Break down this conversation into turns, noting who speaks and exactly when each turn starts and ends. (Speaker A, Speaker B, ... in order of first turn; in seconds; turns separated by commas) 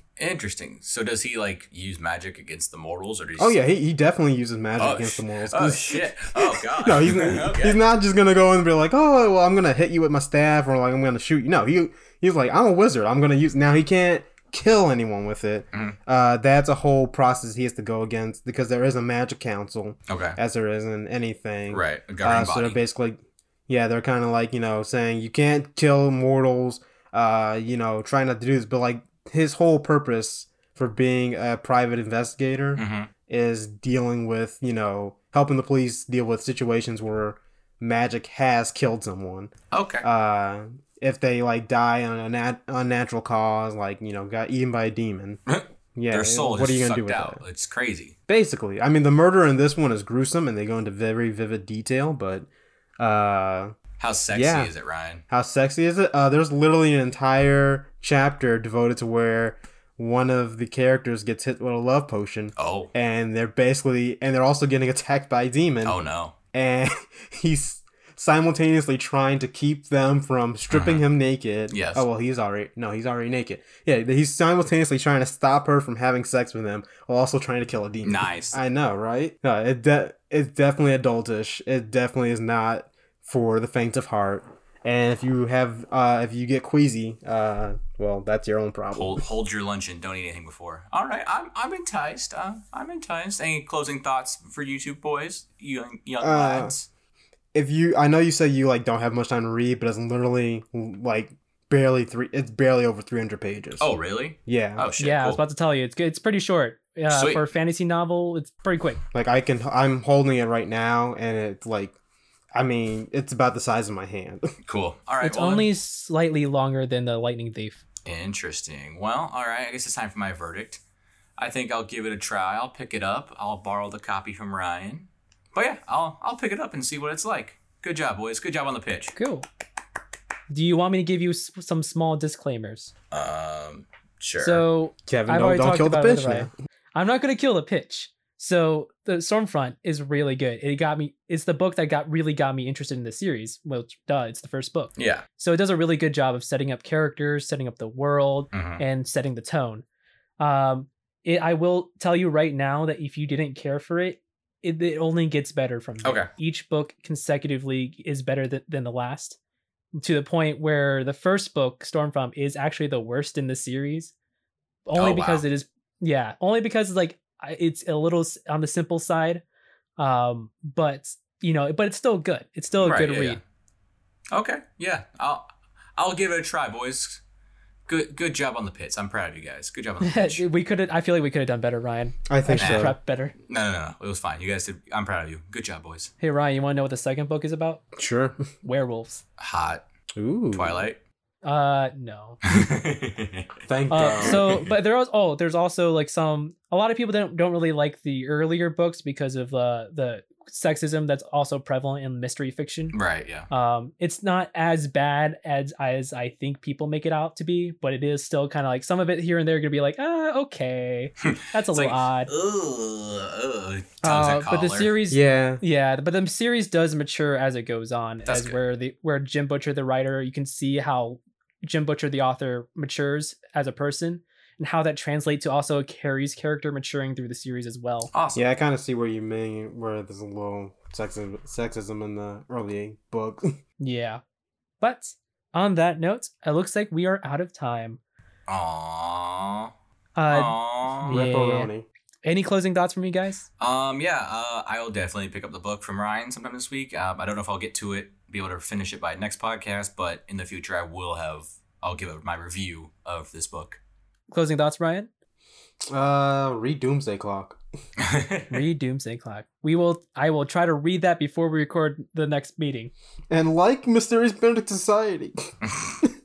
Speaker A: 0.2-3.6, Speaker B: 3.4-45.4, Speaker A: 4.8-7.8, Speaker A: 20.1-20.4, Speaker A: 21.7-22.8, Speaker A: 32.8-33.1, Speaker A: 39.7-40.0, Speaker A: 45.5-48.1, Speaker B: 46.0-47.4, Speaker B: 48.3-52.5, Speaker B: 53.0-53.8, Speaker A: 54.0-55.2, Speaker B: 54.3-54.7, Speaker B: 55.3-66.0, Speaker A: 62.6-62.9, Speaker A: 65.8-66.3, Speaker B: 66.5-89.2, Speaker A: 70.7-71.0, Speaker A: 71.7-72.0, Speaker A: 78.0-78.6, Speaker A: 88.9-96.9, Speaker B: 96.2-96.7, Speaker B: 97.5-103.9, Speaker A: 103.8-105.4, Speaker B: 104.5-104.9, Speaker C: 105.0-109.0, Speaker A: 107.1-107.4, Speaker B: 109.1-112.0, Speaker B: 112.5-114.5, Speaker A: 114.7-115.7, Speaker C: 115.2-117.8, Speaker A: 118.0-120.8, Speaker A: 121.4-129.1, Speaker C: 129.1-129.4, Speaker C: 130.5-132.9, Speaker A: 133.1-134.6, Speaker C: 134.4-149.8, Speaker B: 135.1-136.5, Speaker A: 145.0-145.2, Speaker A: 148.5-148.8, Speaker C: 150.4-159.4, Speaker A: 156.0-156.3, Speaker C: 160.0-164.1, Speaker C: 164.9-169.4, Speaker A: 164.9-165.4, Speaker C: 170.0-173.4, Speaker A: 172.8-173.4, Speaker A: 174.3-177.2, Speaker A: 177.9-180.4, Speaker C: 180.0-183.3, Speaker B: 182.3-182.9, Speaker A: 182.6-186.1, Speaker C: 186.2-187.8, Speaker B: 187.9-188.4, Speaker C: 188.6-189.2, Speaker A: 189.4-189.8, Speaker B: 190.2-190.8, Speaker A: 190.5-191.0, Speaker C: 191.4-192.4, Speaker A: 192.5-194.7, Speaker B: 193.7-194.4, Speaker C: 193.9-202.9, Speaker A: 202.9-203.5, Speaker C: 203.5-212.3, Speaker A: 211.2-214.9, Speaker C: 214.0-228.1, Speaker B: 215.1-215.6, Speaker A: 218.3-218.6, Speaker A: 228.1-228.4, Speaker B: 228.3-233.5, Speaker C: 233.8-234.2, Speaker C: 234.8-238.0, Speaker A: 238.5-239.7, Speaker C: 240.2-241.7, Speaker A: 240.3-241.2, Speaker B: 241.1-241.8, Speaker C: 242.2-243.4, Speaker A: 243.6-253.8, Speaker C: 254.3-255.1, Speaker B: 255.9-257.6, Speaker A: 258.0-258.6, Speaker C: 258.5-262.9, Speaker B: 263.3-265.5, Speaker A: 265.7-266.0